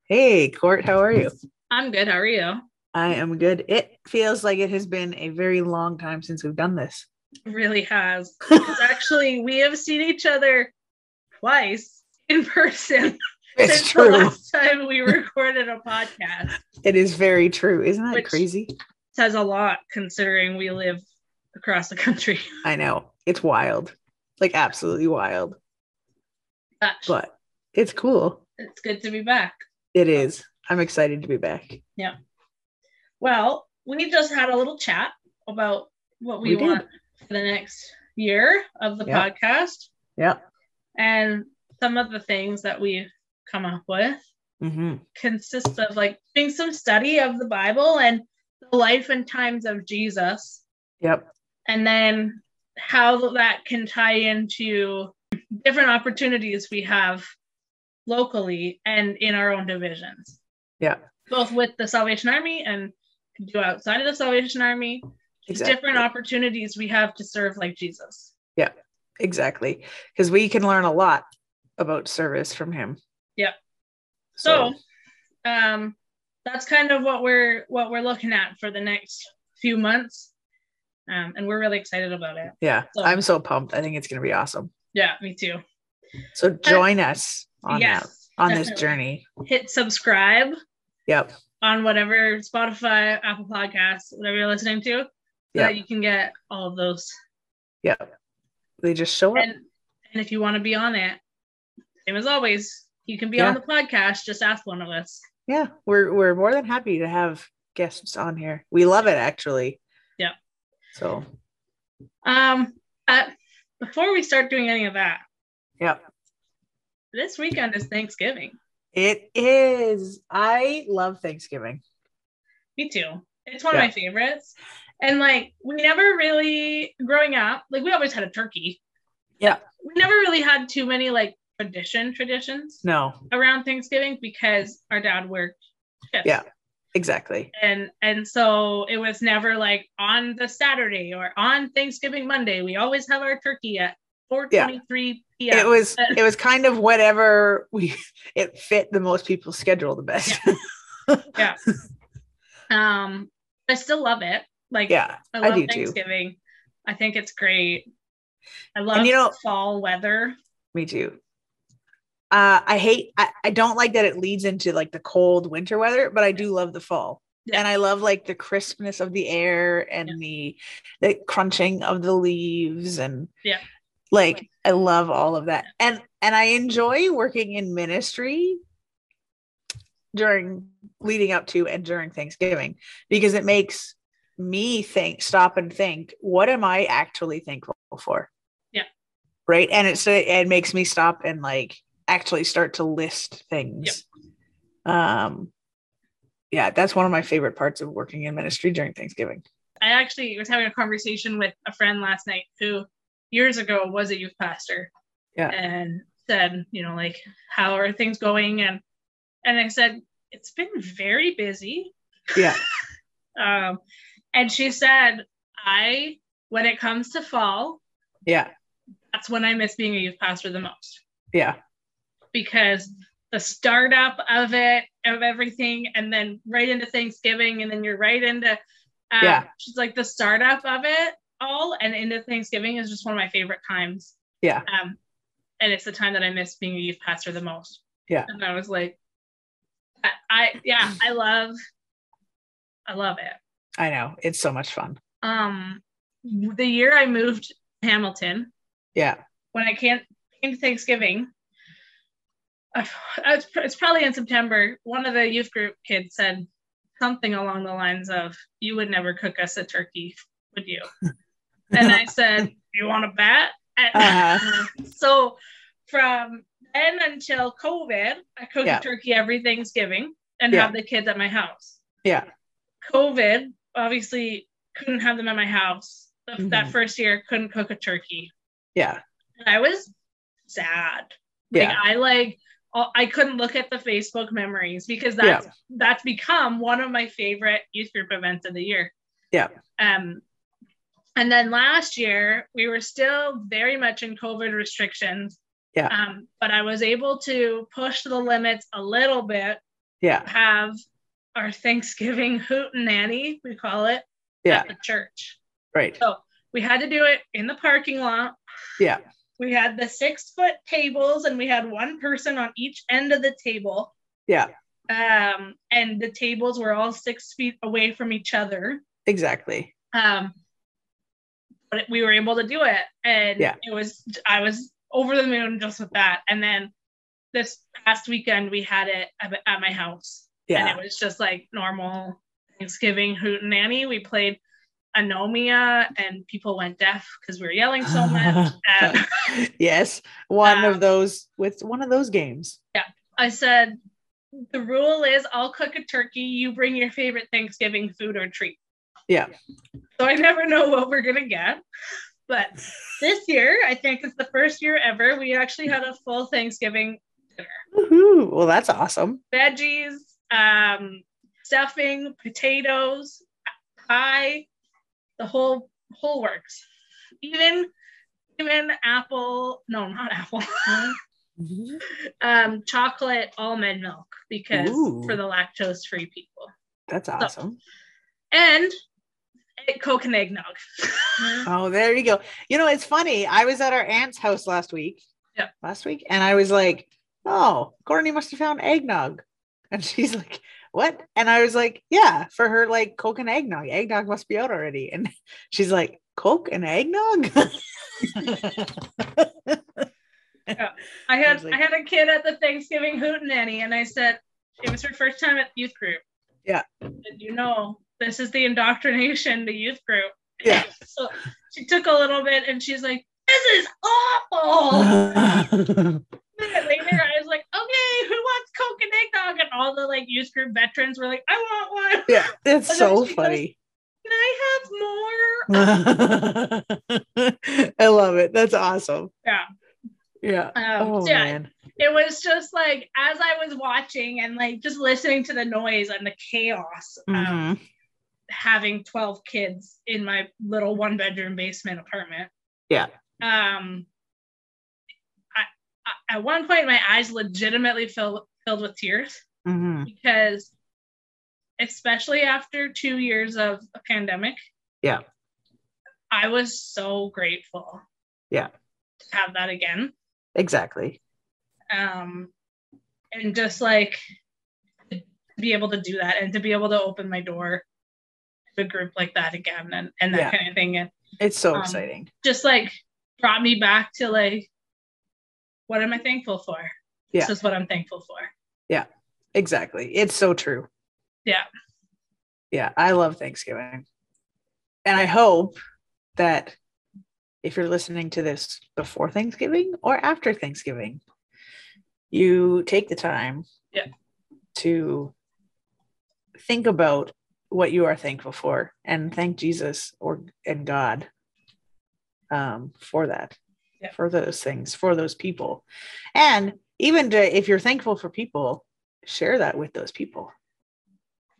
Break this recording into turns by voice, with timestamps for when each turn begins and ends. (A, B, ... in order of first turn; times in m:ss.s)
0:00.1-0:01.3 A
0:01.7-0:02.6 B
0:02.9-0:07.0 A
0:07.4-0:10.7 B
0:11.4-0:16.6 B
0:13.6-0:14.4 A
0:16.8-0:18.7 A
0:18.1-0:18.4 B
0:19.1-0:21.0 B
0:21.5-0:22.6 B
0:22.6-0:25.6 A
0:26.8-0:27.2 B
0:27.1-0:28.4 A
0:28.6-0:29.6 B
0:29.9-0:31.8 A
0:33.2-0:39.9 B
0:36.4-0:36.8 A
0:41.0-0:44.2 B
0:44.6-0:45.0 A
0:45.1-0:50.6 B
0:51.0-0:51.3 A
0:51.7-0:57.2 B
0:58.1-1:00.4 B
1:01.3-1:08.3 B
1:05.5-1:06.0 A
1:08.6-1:11.2 A
1:11.8-1:13.0 A
1:14.4-1:14.7 A
1:14.4-1:14.8 B
1:15.4-1:20.3 B
1:21.1-1:23.2 B
1:22.6-1:24.7 A
1:24.9-1:25.6 B
1:26.3-1:29.2 A
1:27.7-1:28.9 B
1:29.4-1:30.5 B
1:31.1-1:31.3 A
1:31.6-1:37.1 B
1:37.8-1:38.1 A
1:38.8-1:39.5 A
1:39.3-1:41.2 B
1:42.0-1:45.2 B
1:45.5-1:49.8 A
1:50.9-1:51.2 A
1:52.2-1:55.2 B
1:57.1-1:58.6 B
1:58.9-2:01.8 A
2:02.8-2:08.8 B
2:09.5-2:15.6 B
2:12.8-2:13.2 A
2:16.1-2:16.4 B
2:16.2-2:17.5 A
2:17.5-2:26.2 B
2:25.5-2:31.7 A
2:31.3-2:31.6 B
2:32.7-2:37.8 B
2:34.9-2:36.0 A
2:38.7-2:40.3 B
2:38.9-2:39.4 A
2:40.7-2:41.2 A
2:42.3-2:53.3 A
2:54.1-2:58.6 A
3:00.1-3:08.3 A
3:09.5-3:14.0 A
3:14.8-3:15.5 A
3:16.5-3:19.4 A
3:19.8-3:24.9 B
3:25.5-3:28.8 B
3:29.4-3:32.5 B
3:33.4-3:33.8 B
3:34.3-3:37.8 B
3:39.1-3:41.0 B
3:42.3-3:48.6 B
3:49.1-3:54.1 B
3:49.2-3:49.4 A
3:54.6-3:55.0 B
3:55.6-3:59.0 B
4:00.0-4:01.5 B
4:02.9-4:03.4 B
4:03.8-4:05.0 A
4:05.2-4:08.5 B
4:09.5-4:11.3 B
4:12.7-4:16.4 B
4:17.0-4:20.9 B
4:21.7-4:25.4 B
4:21.8-4:22.0 A
4:23.9-4:24.6 A
4:25.9-4:31.8 B
4:32.8-4:38.3 B
4:36.4-4:36.7 A
4:38.7-4:39.0 A
4:39.4-4:39.9 B
4:40.5-4:48.9 B
4:41.5-4:41.8 A
4:49.8-4:50.2 B
4:51.2-4:55.4 B
4:55.9-4:59.6 B
5:00.0-5:00.3 A
5:00.2-5:00.7 B
5:01.4-5:05.4 B
5:05.7-5:06.0 A
5:06.0-5:08.4 B
5:09.4-5:13.9 B
5:14.9-5:18.8 B
5:19.0-5:19.7 A
5:19.9-5:20.3 B
5:21.7-5:26.7 B
5:27.3-5:34.4 B
5:30.5-5:30.8 A
5:34.9-5:39.1 B
5:37.9-5:42.6 A
5:40.4-5:40.8 B
5:42.7-5:43.8 B
5:44.5-5:48.6 B
5:50.0-5:51.6 B
5:52.3-5:57.6 B
5:57.7-5:59.2 A
5:59.3-6:03.2 B
6:03.9-6:04.5 B
6:05.2-6:06.6 B
6:07.2-6:07.7 B
6:08.4-6:10.9 B
6:11.4-6:11.8 A
6:12.1-6:16.5 B
6:14.5-6:15.2 A
6:16.9-6:17.6 A
6:18.3-6:18.7 B
6:19.6-6:21.5 B
6:21.4-6:25.0 A
6:25.6-6:39.8 A
6:40.5-6:46.0 B
6:41.2-6:41.6 A
6:47.0-6:55.4 B
6:54.7-6:56.0 A
6:56.4-7:03.4 B
7:02.1-7:03.5 A
7:04.0-7:05.7 B
7:05.5-7:09.1 A
7:10.2-7:11.5 A
7:10.5-7:17.4 B
7:17.1-7:17.6 A
7:18.3-7:22.3 B
7:23.2-7:23.9 B
7:25.3-7:29.2 B
7:29.4-7:29.9 A
7:29.8-7:30.5 B
7:31.6-7:34.4 B
7:36.1-7:37.8 B
7:39.1-7:39.9 B
7:40.4-7:41.0 A
7:41.7-7:42.3 B
7:43.1-7:44.0 B
7:44.9-7:47.6 B
7:48.6-7:50.9 B
7:51.2-7:52.1 A
7:51.5-7:54.5 B
7:55.7-7:58.3 B
7:58.7-8:00.7 A
8:02.5-8:03.8 A
8:04.8-8:05.6 A
8:06.2-8:06.5 A
8:07.4-8:11.0 A
8:12.1-8:13.4 A
8:14.5-8:15.1 A
8:16.4-8:21.1 A
8:22.3-8:23.4 A
8:23.9-8:25.6 A
8:26.1-8:30.3 A